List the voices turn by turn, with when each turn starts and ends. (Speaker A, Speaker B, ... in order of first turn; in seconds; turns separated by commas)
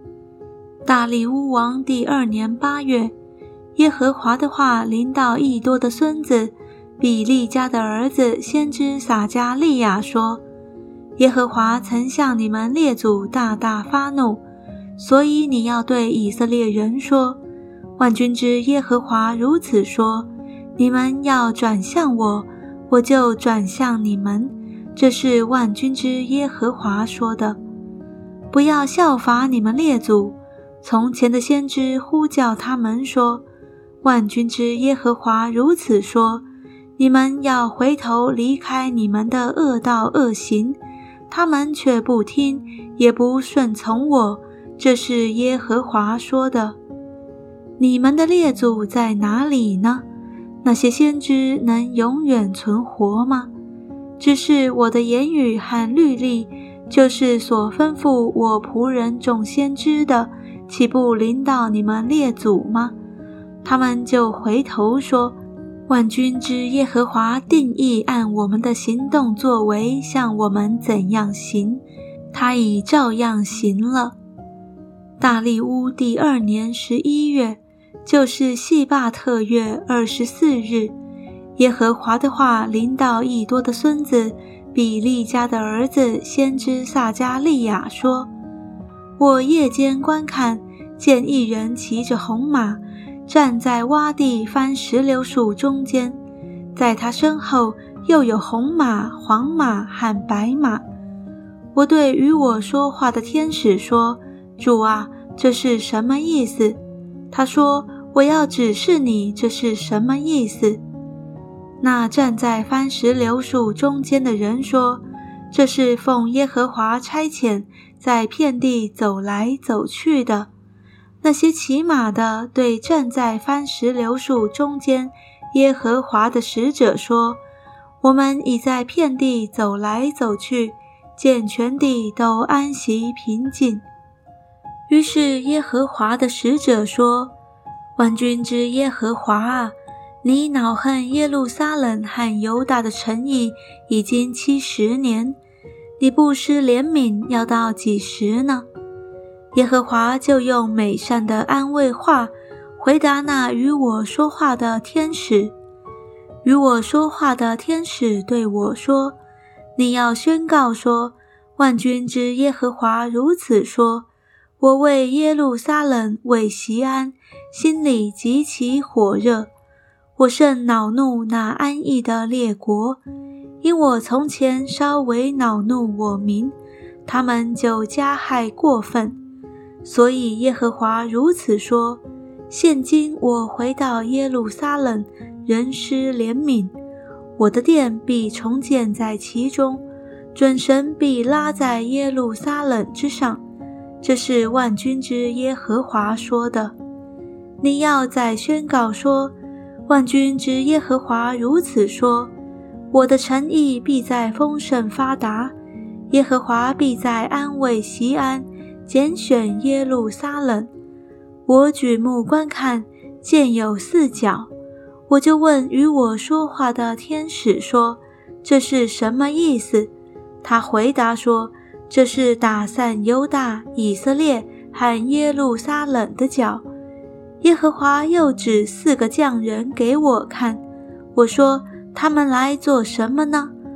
Speaker A: 0.8-3.1, Speaker A: 3.8-10.4, Speaker A: 11.2-14.4, Speaker A: 15.0-17.4, Speaker A: 18.0-27.6, Speaker A: 28.5-33.4, Speaker A: 34.0-36.4, Speaker A: 37.0-40.8, Speaker A: 41.3-46.8, Speaker A: 47.8-50.0, Speaker A: 50.6-53.5, Speaker A: 54.2-62.9, Speaker A: 63.6-65.4, Speaker A: 65.9-74.1, Speaker A: 75.2-80.9, Speaker A: 81.6-88.3, Speaker A: 89.2-96.2, Speaker A: 96.7-100.8, Speaker A: 101.7-106.8, Speaker A: 107.3-110.8, Speaker A: 111.8-120.5, Speaker A: 121.2-127.4, Speaker A: 128.0-133.8, Speaker A: 134.9-137.3, Speaker A: 138.0-145.4, Speaker A: 146.0-148.7, Speaker A: 149.5-155.5, Speaker A: 156.4-159.2, Speaker A: 159.8-164.1, Speaker A: 164.6-169.5, Speaker A: 170.2-173.0, Speaker A: 173.6-176.5, Speaker A: 177.1-179.2, Speaker A: 179.8-186.7, Speaker A: 187.4-193.4, Speaker A: 194.0-196.7, Speaker A: 197.6-199.3, Speaker A: 199.9-202.3, Speaker A: 202.9-205.5, Speaker A: 206.1-210.7, Speaker A: 211.4-214.5, Speaker A: 215.1-219.9, Speaker A: 220.4-226.6, Speaker A: 227.4-230.6, Speaker A: 231.1-233.5